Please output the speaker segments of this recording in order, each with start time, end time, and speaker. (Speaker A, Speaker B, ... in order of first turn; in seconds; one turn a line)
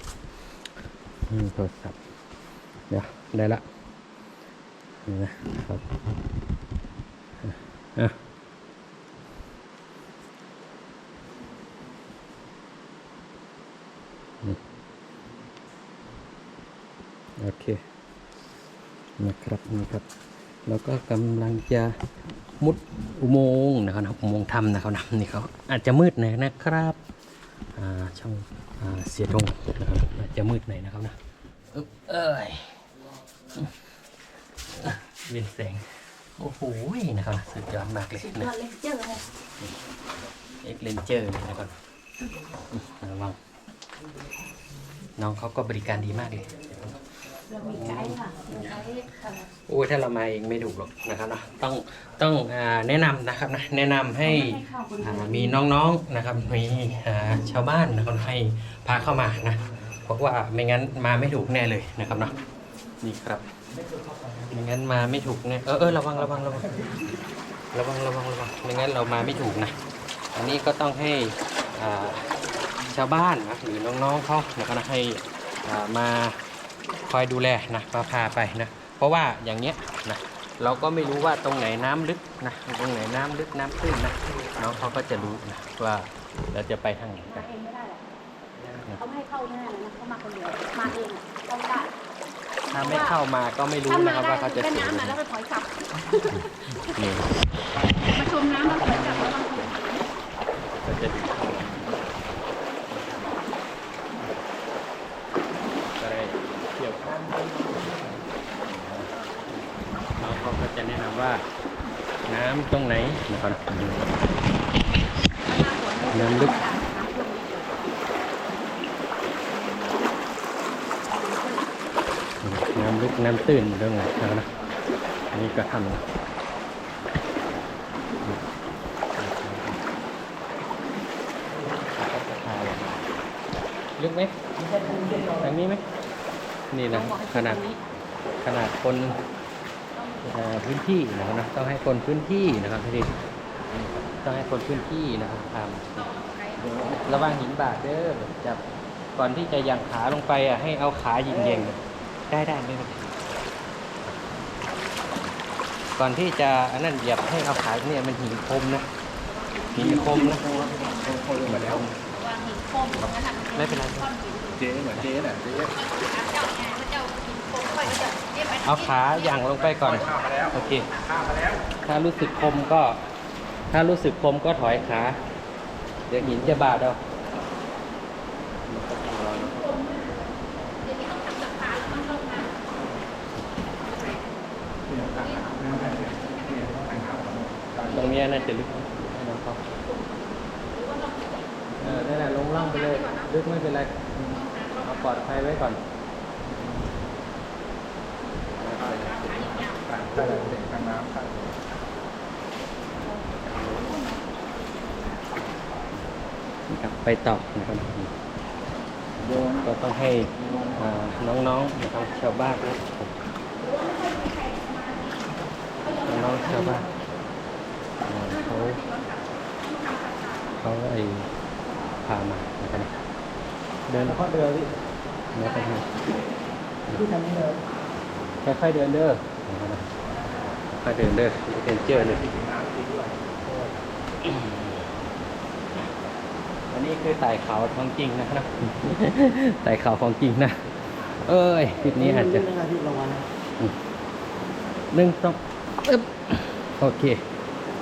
Speaker A: 1.3-2.0
Speaker A: 2.9-3.6
Speaker A: 5.0-5.8
Speaker A: 7.4-8.2
Speaker A: 17.4-17.8
Speaker A: 19.2-20.0
Speaker A: 20.6-27.0
Speaker A: 27.8-31.1
Speaker A: 31.7-32.8
Speaker A: 34.7-38.5
Speaker B: 38.2-39.2
Speaker A: 40.6-41.8
Speaker A: 42.7-43.4
Speaker A: 45.2-47.0
Speaker B: 47.5-49.4
Speaker A: 47.6-48.9
Speaker A: 49.5-62.3
Speaker B: 54.2-55.5
Speaker A: 63.0-63.4
Speaker A: 64.5-67.0
Speaker A: 67.7-69.8
Speaker A: 70.3-72.3
Speaker A: 72.9-76.4
Speaker A: 77.0-87.5
Speaker B: 87.3-88.0
Speaker B: 88.9-91.9
Speaker B: 92.7-93.1
Speaker A: 92.7-95.2
Speaker B: 93.9-97.0
Speaker A: 96.3-97.5
Speaker B: 98.0-100.1
Speaker A: 100.8-102.0
Speaker A: 106.0-107.3
Speaker A: 108.7-109.1
Speaker A: 110.2-111.4
Speaker A: 112.3-114.1
Speaker B: 115.4-117.8
Speaker A: 116.1-116.5
Speaker B: 121.1-121.6
Speaker A: 122.4-124.5
Speaker A: 125.3-126.0
Speaker A: 129.2-129.8
Speaker A: 131.9-133.0
Speaker A: 134.0-134.4
Speaker A: 135.2-135.8
Speaker A: 136.7-137.7
Speaker B: 136.9-137.8
Speaker A: 138.4-139.2
Speaker B: 139.9-140.4
Speaker A: 140.2-143.1
Speaker A: 143.7-146.1
Speaker B: 145.9-146.9
Speaker A: 146.8-148.6
Speaker A: 149.2-151.8
Speaker A: 152.3-153.1
Speaker A: 155.9-158.9
Speaker B: 159.3-161.4
Speaker A: 159.7-160.4
Speaker A: 161.1-161.9
Speaker B: 162.0-164.7
Speaker A: 163.5-164.1
Speaker C: 164.7-165.5
Speaker A: 164.8-165.2
Speaker B: 165.5-171.3
Speaker A: 168.6-170.9
Speaker C: 171.2-171.5
Speaker A: 171.8-173.0
Speaker A: 173.7-175.2
Speaker A: 176.1-177.0
Speaker A: 178.7-179.7
Speaker B: 179.3-182.5
Speaker B: 183.8-184.2
Speaker B: 184.9-187.1
Speaker C: 186.7-187.7
Speaker B: 187.8-188.6
Speaker A: 187.8-189.7
Speaker B: 189.8-191.5
Speaker A: 191.8-195.8
Speaker B: 192.5-193.3
Speaker B: 194.3-195.2
Speaker A: 198.6-200.7
Speaker B: 199.0-199.9
Speaker C: 200.0-201.5
Speaker B: 203.0-205.2
Speaker A: 206.7-208.1
Speaker A: 209.2-213.2
Speaker B: 210.4-212.6
Speaker B: 213.6-215.2
Speaker B: 215.8-217.0
Speaker A: 216.1-216.9
Speaker A: 218.0-218.8
Speaker B: 218.3-220.6
Speaker A: 220.6-221.3
Speaker A: 222.0-222.9
Speaker A: 223.9-224.3
Speaker A: 225.3-225.9
Speaker A: 226.9-227.1
Speaker A: 228.4-229.9
Speaker A: 230.8-232.3
Speaker C: 232.3-233.1
Speaker A: 233.4-234.9
Speaker A: 236.7-240.6
Speaker A: 241.2-242.7
Speaker C: 242.8-243.1
Speaker A: 244.9-247.2